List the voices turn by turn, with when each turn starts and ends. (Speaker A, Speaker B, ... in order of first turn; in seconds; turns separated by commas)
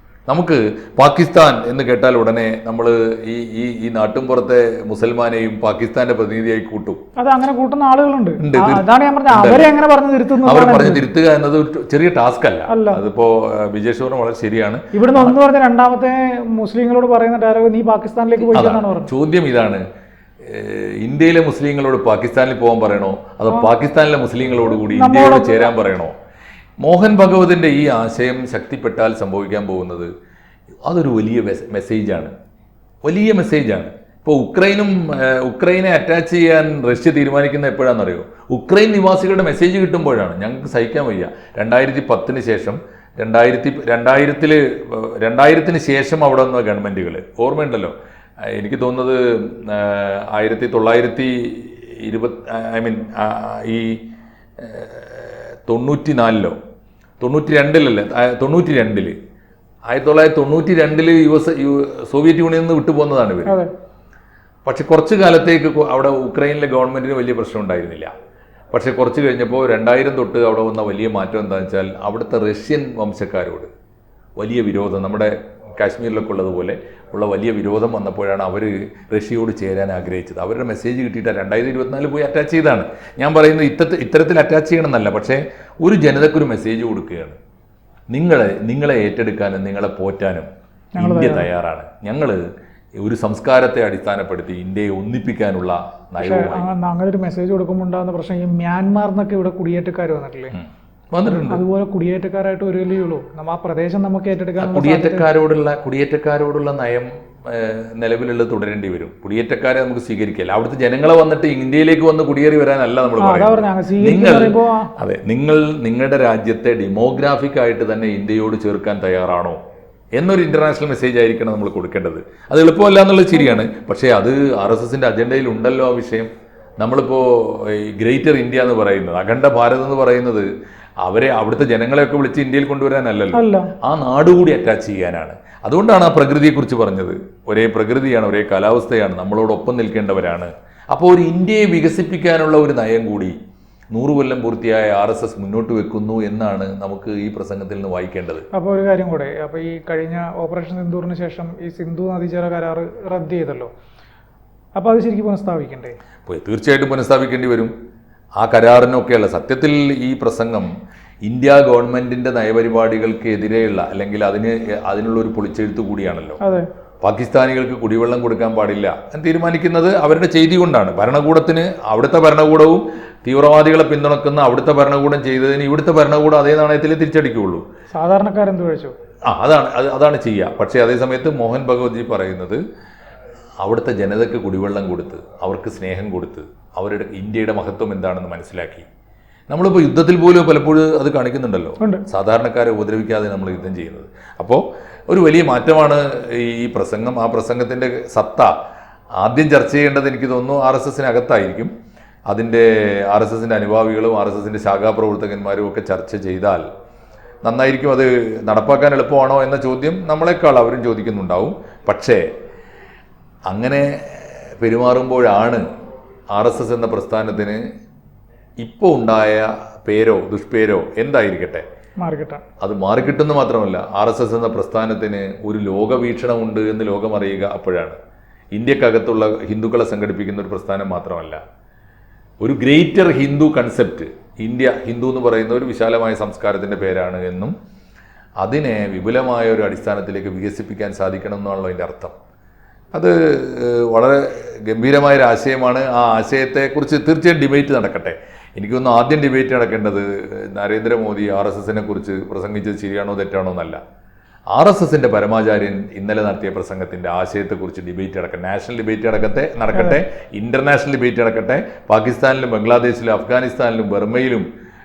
Speaker A: 0.3-7.0, Speaker B: 7.2-11.0, Speaker A: 8.4-9.7, Speaker A: 10.4-15.4, Speaker B: 12.7-13.0, Speaker B: 14.9-19.1, Speaker A: 18.5-19.8, Speaker A: 20.4-26.1, Speaker B: 24.8-25.7, Speaker A: 26.8-30.1, Speaker A: 30.9-32.3, Speaker A: 33.0-54.0, Speaker A: 54.6-56.6, Speaker A: 57.2-59.1, Speaker A: 59.9-63.6, Speaker A: 64.7-68.1, Speaker A: 68.7-73.7, Speaker A: 74.4-87.4, Speaker A: 88.1-90.5, Speaker B: 91.0-91.5, Speaker A: 91.0-92.4, Speaker A: 93.0-96.7, Speaker B: 96.2-100.5, Speaker A: 100.5-101.6, Speaker B: 101.4-105.3, Speaker A: 104.6-119.6, Speaker B: 113.2-114.9, Speaker A: 120.2-126.3, Speaker A: 126.8-130.5, Speaker A: 131.0-143.3, Speaker B: 133.3-133.7, Speaker A: 143.9-148.5, Speaker B: 148.5-153.7, Speaker B: 154.8-156.0, Speaker A: 156.3-157.7, Speaker A: 158.4-160.7, Speaker A: 161.2-166.4, Speaker B: 166.4-166.7, Speaker A: 167.0-177.6, Speaker B: 177.9-178.9, Speaker A: 179.3-182.6, Speaker A: 183.6-188.9, Speaker A: 189.5-198.5, Speaker A: 199.2-201.7, Speaker A: 202.3-206.7, Speaker A: 207.4-212.2, Speaker A: 213.5-215.6, Speaker A: 216.3-217.6, Speaker A: 218.6-221.6, Speaker B: 222.0-222.4, Speaker A: 222.6-228.0, Speaker A: 228.5-231.4, Speaker A: 232.4-237.5, Speaker A: 238.4-242.2, Speaker A: 242.9-253.8, Speaker A: 254.5-264.5, Speaker B: 259.7-260.0